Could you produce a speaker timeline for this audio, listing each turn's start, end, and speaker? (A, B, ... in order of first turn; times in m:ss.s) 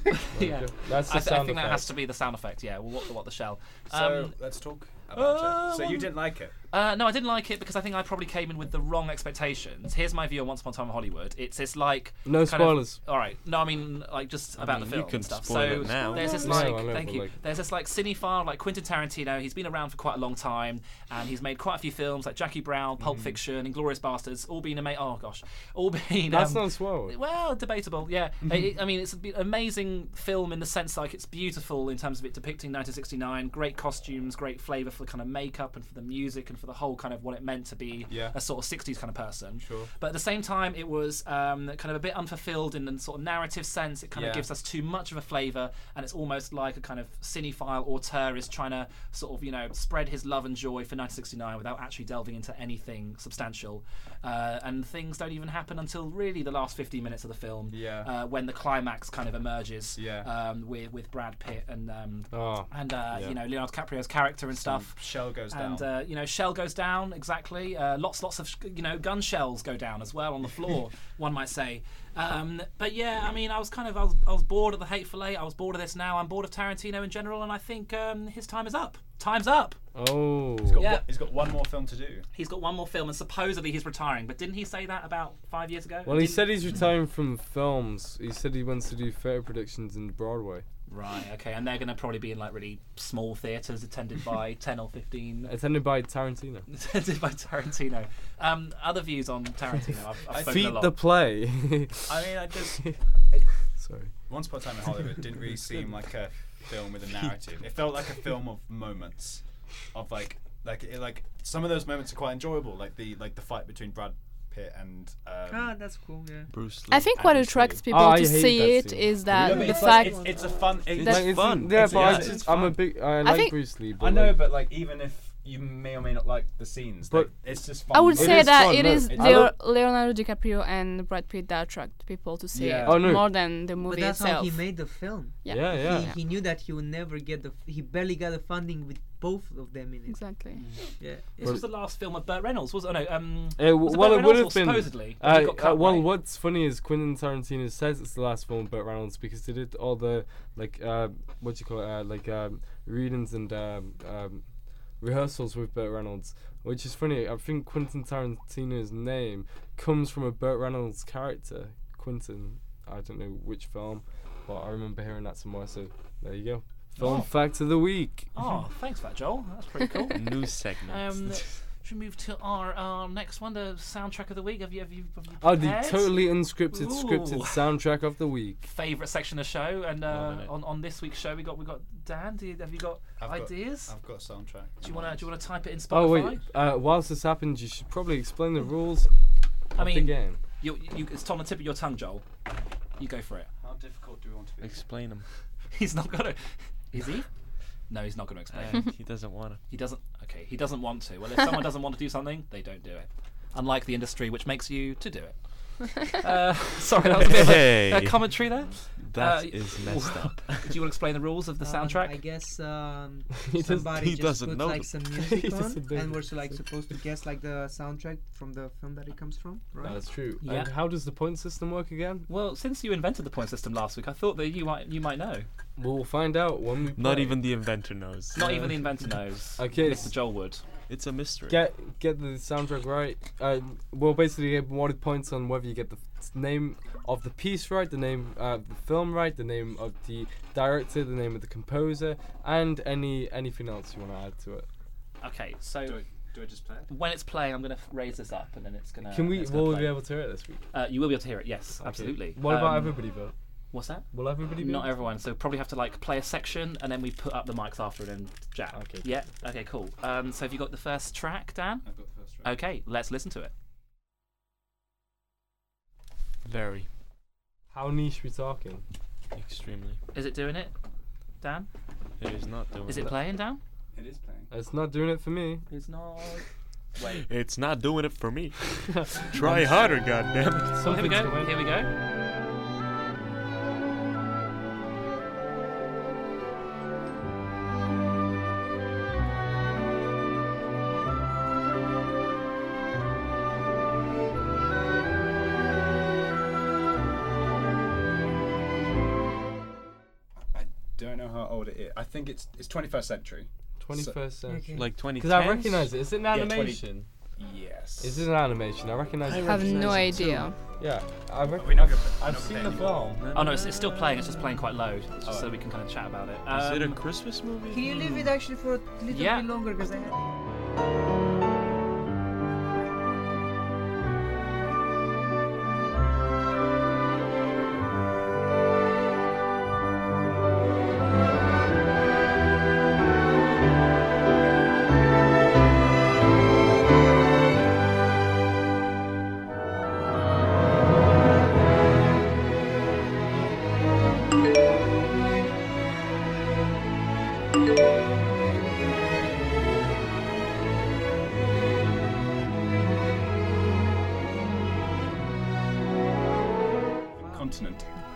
0:00.2-0:04.4 A
0:00.4-0:01.9 B
0:03.9-0:06.5 C
0:05.1-0:06.2 A
0:06.7-1:19.8 A
0:12.2-0:13.0 B
0:14.6-0:16.6 D
0:16.1-0:17.4 B
0:23.0-0:23.4 C
0:26.3-0:27.2 B
0:28.4-0:28.7 C
0:38.1-0:38.4 C
0:39.6-0:39.9 C
0:44.1-0:44.5 C
0:57.7-0:58.1 C
1:00.0-1:00.3 C
1:02.3-1:03.4 B
1:04.6-1:05.9 C
1:20.0-1:20.8 B
1:20.7-1:22.2 C
1:20.8-1:21.1 A
1:22.3-1:26.5 A
1:26.0-1:30.6 B
1:30.9-1:35.5 A
1:35.5-1:36.7 B
1:36.7-1:40.9 A
1:40.3-1:40.8 C
1:40.4-1:42.2 B
1:42.1-1:43.5 C
1:43.8-1:44.1 B
1:44.3-1:55.8 C
1:55.5-1:56.5 E
1:56.5-1:57.8 D
1:56.9-2:00.3 F
1:57.9-1:59.4 B
1:59.3-2:02.8 C
1:59.4-2:00.7 E
2:00.9-2:02.4 D
2:01.0-2:04.4 B
2:03.2-2:03.6 F
2:04.0-2:09.5 C
2:07.9-2:14.7 F
2:08.1-2:09.5 B
2:12.5-2:13.1 C
2:12.8-2:13.3 B
2:13.8-2:20.2 E
2:15.4-2:16.2 F
2:15.5-2:16.1 B
2:20.1-2:20.6 F
2:20.6-2:20.8 A
2:21.0-2:21.5 E
2:21.4-2:26.1 A
2:23.6-2:34.4 B
2:35.0-2:48.3 B
2:47.0-2:47.3 A
2:48.4-2:50.3 A
2:50.1-2:51.2 D
2:50.8-2:57.6 A
2:55.4-2:58.6 B
2:58.6-3:03.9 A
3:00.1-3:00.5 D
3:03.2-3:05.3 C
3:04.8-3:06.4 A
3:05.9-3:09.1 B
3:09.8-3:10.4 B
3:09.8-3:12.2 A
3:13.0-3:13.5 A
3:13.6-3:14.8 C
3:14.6-3:15.3 D
3:15.7-3:16.4 A
3:16.9-3:17.3 A
3:17.9-3:18.9 A
3:18.5-3:19.6 D
3:19.7-3:25.4 A
3:26.0-3:32.2 A
3:27.2-3:28.4 D
3:29.0-3:30.8 D
3:31.6-3:40.0 E
3:33.5-3:34.0 B
3:34.0-3:34.9 D
3:35.2-3:36.6 B
3:39.8-3:42.3 B
3:40.4-3:40.7 A
3:42.3-3:45.5 A
3:45.8-3:47.4 B
3:47.0-3:48.8 D
3:48.4-3:50.6 A
3:49.6-3:50.1 B
3:50.9-3:51.6 D
3:51.5-4:04.7 B
4:05.2-4:06.0 A
4:05.8-4:06.9 C
4:06.9-4:10.0 A
4:09.1-4:10.6 B
4:10.7-4:13.0 A
4:11.8-4:13.3 B
4:13.7-4:21.9 A
4:14.1-4:14.9 B
4:18.7-4:19.1 B
4:21.8-4:22.6 C
4:22.4-4:23.5 A
4:26.4-4:26.9 D
4:27.7-4:28.8 B
4:29.4-4:30.0 D
4:30.1-4:30.7 A
4:31.4-4:31.7 A
4:32.2-4:33.2 D
4:32.9-4:33.6 A
4:33.9-4:34.5 C
4:34.5-4:35.6 B
4:35.7-4:36.4 A
4:37.0-4:37.2 A
4:37.2-4:40.8 D
4:39.0-4:39.9 B
4:40.8-4:41.7 B
4:40.8-4:41.9 A
5:00.5-5:04.2 C
5:03.8-5:07.1 B
5:04.5-5:04.9 E
5:04.8-5:05.9 D
5:06.3-5:06.8 C
5:07.4-5:08.2 C
5:08.0-5:10.0 B
5:09.4-5:10.6 F
5:09.5-5:10.4 D
5:10.8-5:13.2 B
5:11.5-5:13.1 C
5:13.2-5:13.9 D
5:13.3-5:17.0 A
5:15.2-5:15.5 C
5:16.5-5:18.3 D
5:17.7-5:20.4 E
5:19.1-5:19.5 A
5:57.2-5:57.9 C